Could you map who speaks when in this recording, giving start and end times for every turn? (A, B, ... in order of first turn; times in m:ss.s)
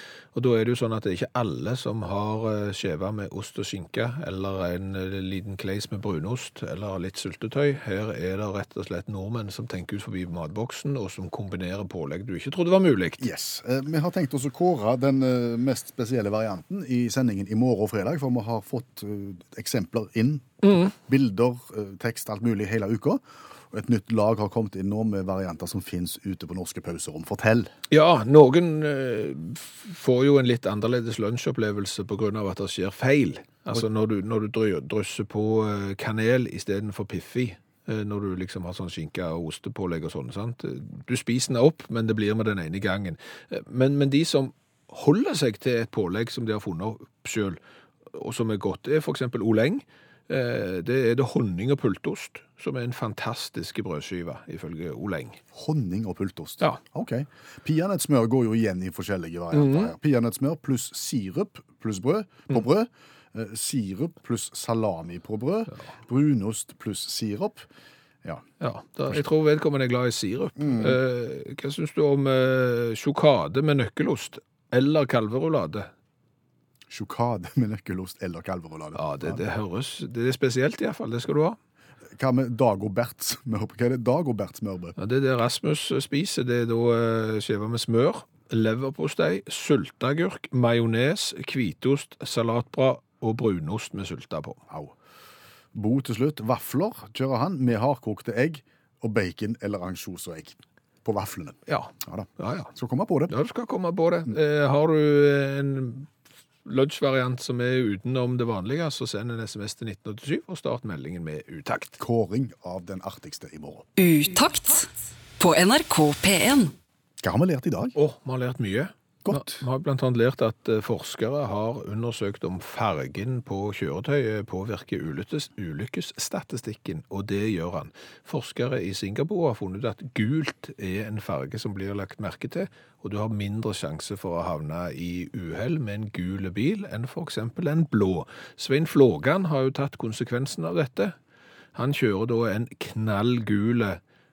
0:00.3-0:13.2 A
0:13.2-0:27.7 B
0:20.6-0:20.9 A
0:27.9-0:47.6 A
0:48.1-0:55.4 A
0:55.5-1:07.7 B
0:59.5-0:59.9 A
1:08.6-1:15.9 A
1:10.6-1:11.0 B
1:16.9-1:19.4 B
1:19.0-1:21.6 A
1:22.1-1:25.0 B
1:25.0-1:34.6 A
1:34.7-1:34.9 B
1:35.7-1:43.3 B
1:41.7-1:42.7 A
1:43.3-1:46.1 A
1:46.6-1:52.0 A
1:52.0-1:53.9 B
1:54.0-1:56.7 C
1:57.2-1:57.9 B
1:58.0-2:21.1 A
1:59.2-1:59.6 B
2:21.7-2:24.0 A